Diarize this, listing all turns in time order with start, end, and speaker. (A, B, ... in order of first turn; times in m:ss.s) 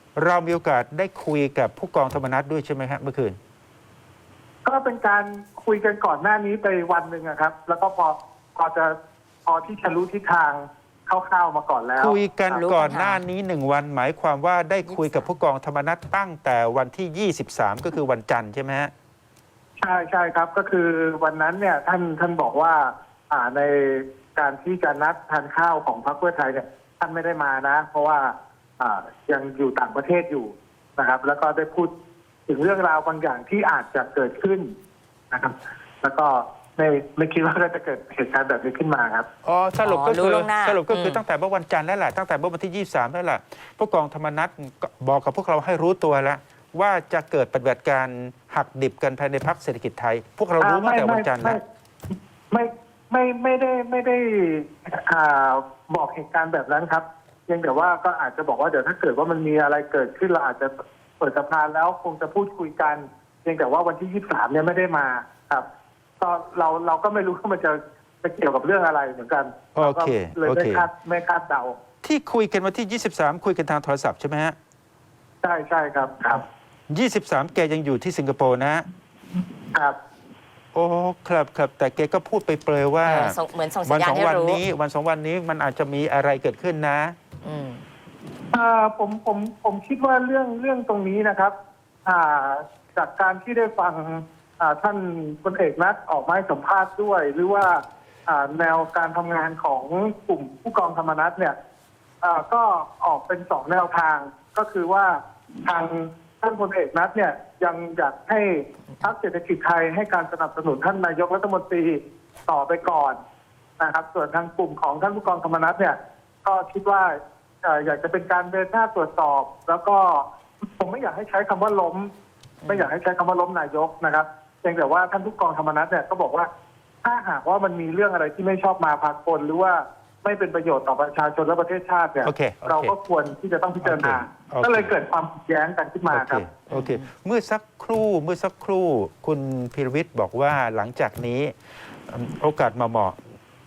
0:00.2-0:03.4 A
0:04.6-0:12.6 B
0:12.0-0:18.9 A
0:12.5-0:13.2 C
0:14.9-0:15.3 C
0:19.8-0:31.9 B
0:32.5-0:34.7 B
0:35.3-0:39.3 B
0:39.4-0:51.6 A
0:39.8-0:41.2 C
0:50.6-0:51.6 B
0:52.5-1:05.6 B
1:06.2-1:11.7 B
1:09.7-1:10.8 A
1:12.0-1:14.6 A
1:15.4-1:16.4 B
1:16.9-1:18.8 A
1:20.7-1:27.2 A
1:23.0-1:24.6 C
1:27.4-1:27.8 C
1:28.5-1:31.5 B
1:32.0-1:41.6 B
1:42.2-1:53.2 B
1:53.8-2:02.1 B
2:02.6-2:02.9 C
2:02.7-2:06.5 B
2:07.0-2:16.5 B
2:12.2-2:12.9 A
2:13.8-2:15.0 A
2:16.1-2:21.5 A
2:16.7-2:17.0 C
2:22.1-2:23.2 A